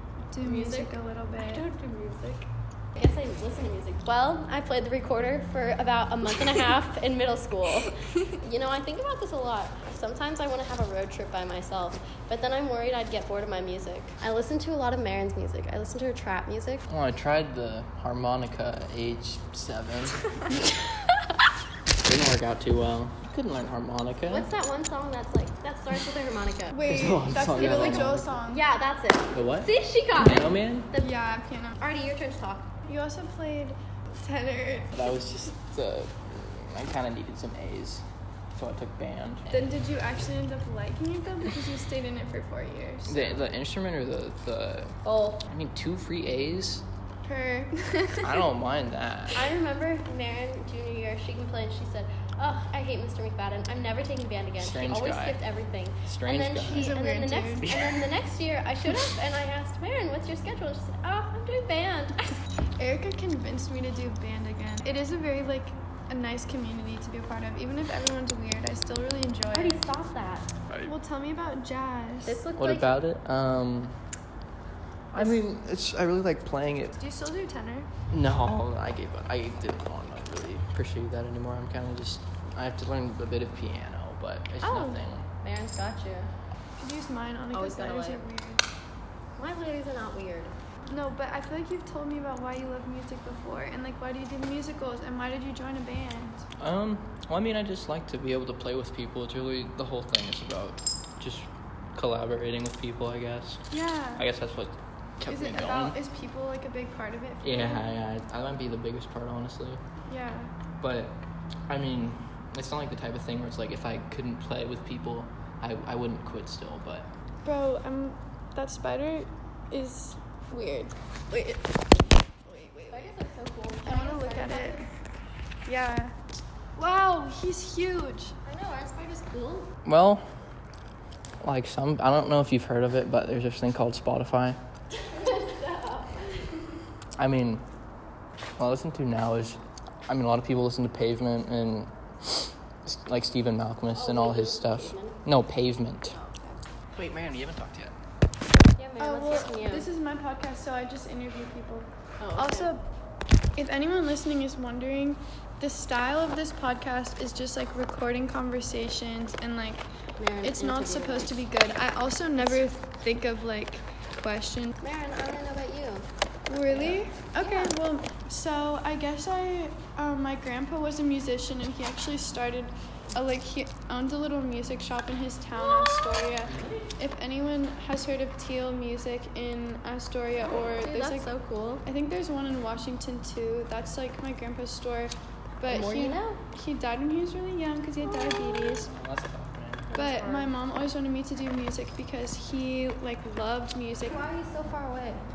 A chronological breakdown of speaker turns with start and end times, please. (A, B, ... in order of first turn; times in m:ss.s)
0:00.3-0:01.6 A
0:00.4-0:16.9 B
0:16.9-0:20.3 C
0:22.0-0:24.5 C
0:24.3-0:26.8 B
0:26.7-0:28.6 A
0:26.9-0:28.3 C
0:27.5-0:31.1 B
0:29.3-0:30.9 C
0:31.0-0:31.8 A
0:31.8-0:32.7 B
0:32.9-0:34.9 A
0:34.9-0:39.6 C
0:39.5-0:43.5 A
0:43.1-0:46.8 C
0:45.0-0:45.4 B
0:47.2-0:48.4 A
0:48.2-0:49.5 C
0:49.3-1:02.4 B
0:54.6-0:55.5 C
0:56.0-0:56.9 C
0:56.6-0:57.7 A
1:02.8-1:09.8 A
1:09.5-1:10.5 B
1:10.7-1:10.9 C
1:10.8-1:12.4 A
1:12.2-1:13.0 B
1:12.6-1:14.0 C
1:15.1-1:17.0 C
1:17.0-1:17.9 A
1:18.1-1:25.3 C
1:24.6-1:25.0 A
1:25.4-1:26.3 B
1:26.8-1:28.6 A
1:27.5-1:28.2 B
1:29.4-1:30.5 B
1:30.9-1:36.4 A
1:36.6-1:46.0 C
1:43.7-1:44.2 A
1:45.3-1:48.0 A
1:47.4-1:49.8 C
1:50.0-1:50.5 A
1:50.8-1:57.1 C
1:57.4-2:01.6 A
2:02.4-2:03.1 A
2:02.9-2:04.9 B
2:03.8-2:04.9 A
2:05.6-2:06.1 A
2:06.8-2:08.3 A
2:08.4-2:09.7 B
2:09.8-2:10.2 C
2:11.4-2:14.6 C
2:15.0-2:16.6 B
2:17.2-2:17.6 C
2:18.6-2:26.2 C
2:23.9-2:25.2 B
2:26.9-2:27.9 C
2:28.8-2:29.9 B
2:29.0-2:32.8 A
2:32.2-2:32.7 B
2:33.6-2:39.9 A
2:40.2-2:41.4 B
2:40.4-2:44.8 A
2:42.4-2:42.6 B
2:44.8-2:46.1 B
2:46.5-3:01.3 A
2:46.7-2:47.8 B
2:55.6-2:56.7 B
3:00.6-3:01.8 B
3:01.8-3:08.9 A
3:05.7-3:06.4 B
3:08.0-3:08.9 B
3:08.9-3:09.9 C
3:09.9-3:10.5 B
3:10.0-3:14.3 A
3:14.0-3:15.2 B